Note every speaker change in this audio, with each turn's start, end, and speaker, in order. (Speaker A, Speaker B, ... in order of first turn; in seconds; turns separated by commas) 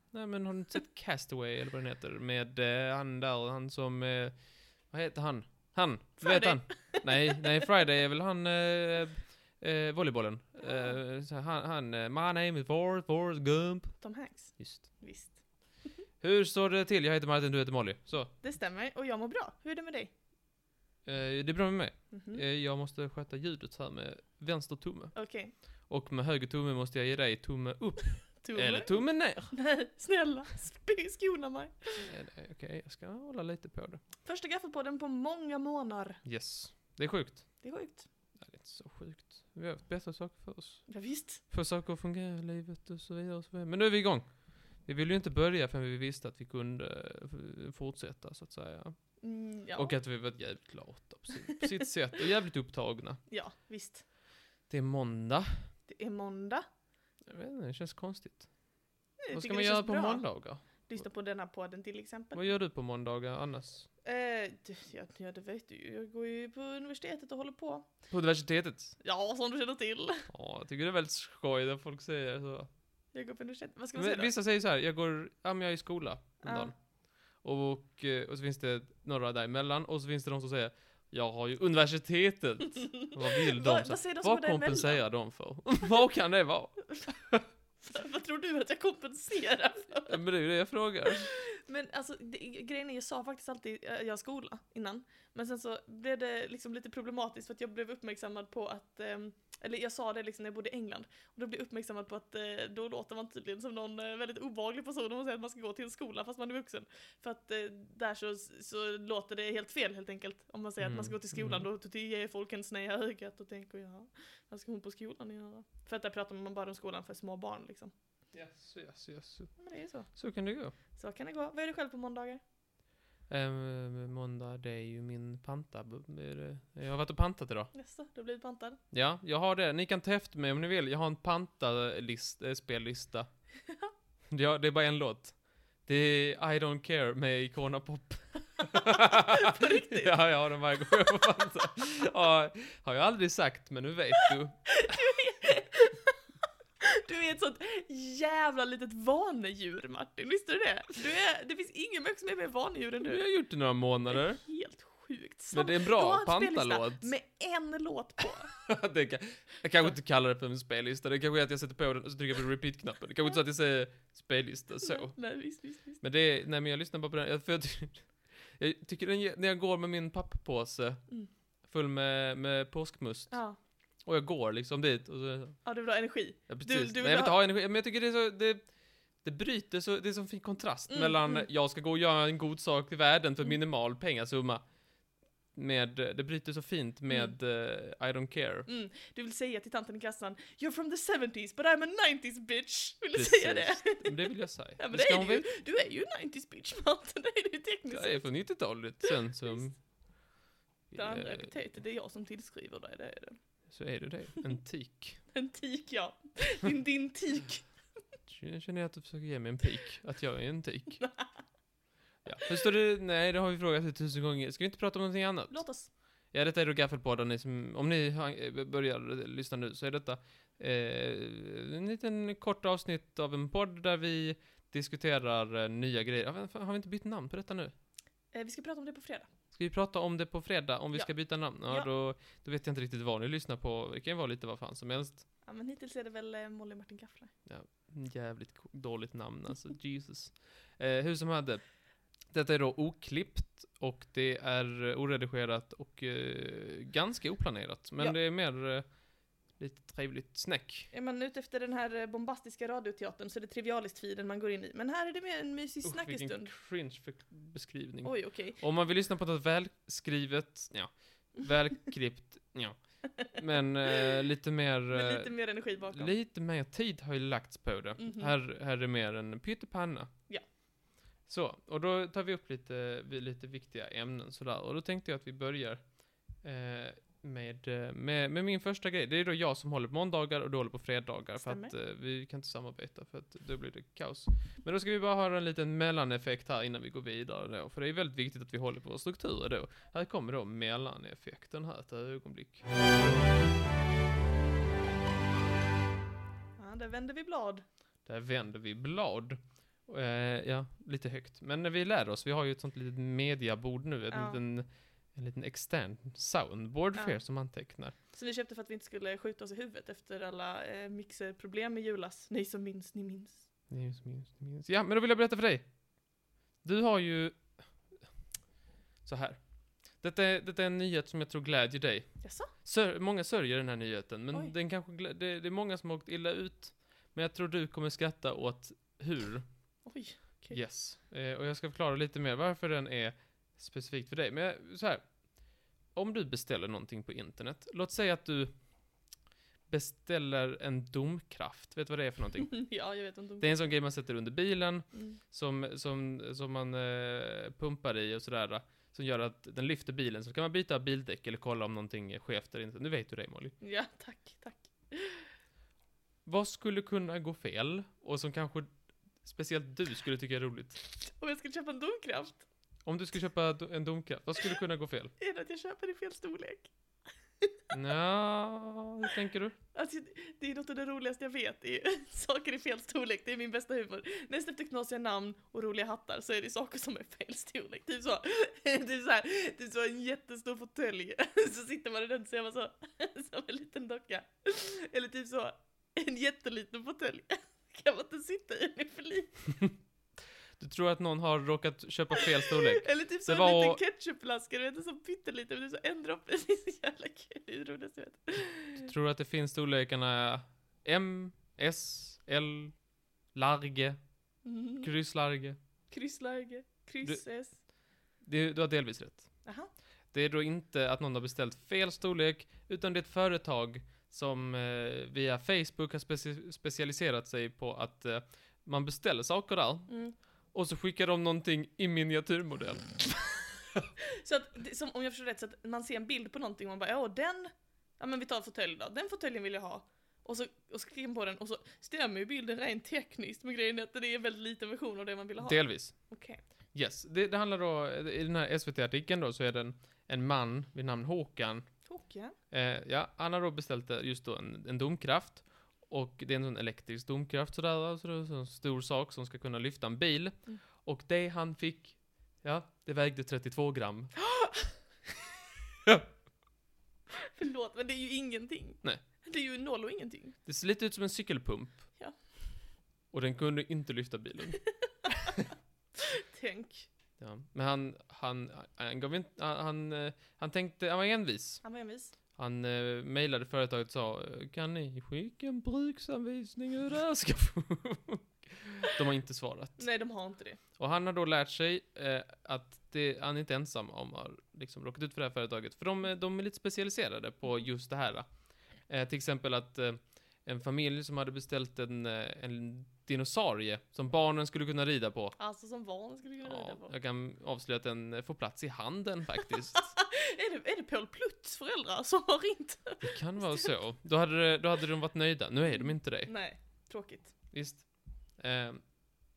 Speaker A: 0.1-14.0, Speaker B: 6.2-7.4, Speaker B: 14.0-15.4, Speaker A: 14.6-14.9, Speaker A: 16.2-18.3, Speaker B: 18.4-20.1, Speaker A: 21.1-25.2, Speaker B: 22.1-22.4, Speaker B: 25.1-25.5, Speaker A: 25.9-29.5, Speaker B: 28.4-32.1, Speaker A: 32.0-34.0, Speaker B: 34.2-36.2, Speaker A: 36.2-37.5, Speaker B: 37.6-38.1, Speaker A: 38.4-40.9, Speaker B: 40.9-41.4, Speaker A: 41.5-44.3, Speaker A: 44.9-49.0, Speaker B: 49.2-50.0, Speaker A: 49.8-53.2, Speaker B: 53.3-54.0, Speaker A: 54.7-55.7, Speaker B: 55.9-56.7, Speaker A: 57.3-58.5, Speaker B: 59.2-62.4, Speaker A: 59.3-61.0, Speaker A: 62.3-63.9, Speaker B: 64.0-67.9, Speaker A: 68.1-69.0, Speaker B: 69.0-70.3, Speaker A: 70.3-72.7, Speaker B: 73.1-74.3, Speaker A: 74.0-76.7, Speaker B: 76.4-76.7, Speaker A: 77.4-87.5, Speaker B: 82.8-85.0, Speaker B: 87.8-90.2, Speaker A: 90.0-91.3, Speaker B: 91.1-117.9, Speaker A: 110.8-111.7, Speaker A: 118.3-119.5, Speaker B: 119.6-120.1, Speaker A: 120.1-120.8, Speaker B: 120.9-122.4, Speaker A: 123.3-127.7, Speaker B: 127.7-128.8, Speaker A: 128.9-133.3, Speaker A: 134.3-135.3, Speaker A: 135.9-145.0, Speaker B: 138.8-140.2, Speaker B: 144.7-146.2, Speaker B: 146.8-153.2, Speaker A: 153.0-154.4, Speaker B: 154.1-158.5, Speaker A: 155.5-157.1, Speaker A: 158.5-165.2, Speaker B: 164.8-166.0, Speaker A: 166.0-171.0, Speaker A: 171.7-173.4, Speaker B: 173.3-173.6, Speaker A: 174.1-175.6, Speaker B: 175.7-177.4, Speaker A: 176.5-178.6, Speaker A: 179.2-184.6, Speaker B: 180.9-181.4, Speaker A: 185.6-188.7, Speaker B: 188.7-198.3, Speaker A: 193.1-195.5, Speaker A: 197.9-199.8, Speaker A: 200.9-201.5, Speaker B: 200.9-203.4, Speaker A: 203.7-205.2, Speaker B: 205.3-207.7, Speaker A: 208.3-211.0, Speaker B: 211.0-211.3, Speaker A: 212.2-215.6, Speaker B: 215.5-215.9, Speaker A: 216.3-227.7, Speaker B: 228.3-229.3, Speaker A: 229.5-235.2, Speaker B: 235.5-237.3, Speaker A: 237.5-241.6, Speaker A: 242.3-248.8, Speaker A: 249.6-250.9, Speaker B: 250.9-256.5, Speaker A: 255.8-270.1, Speaker B: 258.0-258.6, Speaker B: 263.9-264.2, Speaker B: 264.9-266.1, Speaker B: 268.0-268.3, Speaker A: 271.3-275.8, Speaker A: 276.4-292.7, Speaker B: 281.4-281.7, Speaker B: 296.6-297.6, Speaker A: 298.1-307.9, Speaker B: 304.1-304.4, Speaker B: 308.1-313.4, Speaker A: 313.7-315.7, Speaker A: 316.6-317.5, Speaker A: 319.1-319.4, Speaker A: 320.0-322.1, Speaker B: 322.2-322.5, Speaker A: 322.6-329.4, Speaker B: 329.9-330.6, Speaker A: 330.5-335.0, Speaker A: 335.9-338.5, Speaker A: 339.7-342.6, Speaker B: 342.4-343.6, Speaker A: 343.4-353.6, Speaker B: 344.9-345.2, Speaker B: 353.6-355.3, Speaker A: 356.3-358.7, Speaker A: 359.2-360.8, Speaker B: 361.0-362.4, Speaker A: 362.9-365.1, Speaker B: 365.2-366.7, Speaker A: 367.7-369.6, Speaker B: 369.7-389.4, Speaker A: 390.6-393.8, Speaker B: 392.2-398.9, Speaker A: 398.8-402.8, Speaker A: 403.3-404.0, Speaker B: 404.4-404.9, Speaker A: 404.8-405.6, Speaker B: 405.9-407.6, Speaker A: 408.2-409.3, Speaker B: 409.4-409.7, Speaker A: 410.1-419.9, Speaker B: 419.9-420.1, Speaker A: 420.5-423.9, Speaker B: 424.0-436.4, Speaker A: 435.4-435.9, Speaker A: 436.7-441.7, Speaker B: 441.9-442.3, Speaker A: 442.5-454.1, Speaker B: 454.3-454.7, Speaker B: 457.2-460.4, Speaker A: 460.5-461.8, Speaker A: 463.1-464.6, Speaker B: 464.8-465.4, Speaker A: 465.2-465.4, Speaker B: 466.0-466.9, Speaker A: 467.2-471.6, Speaker B: 471.6-472.1, Speaker A: 472.4-479.9, Speaker B: 479.8-480.6, Speaker A: 480.8-488.3, Speaker A: 488.9-495.4, Speaker B: 495.4-496.9, Speaker A: 496.4-499.9, Speaker B: 499.7-503.7, Speaker A: 503.0-506.3, Speaker B: 506.2-507.3, Speaker A: 507.5-507.9, Speaker A: 508.4-508.8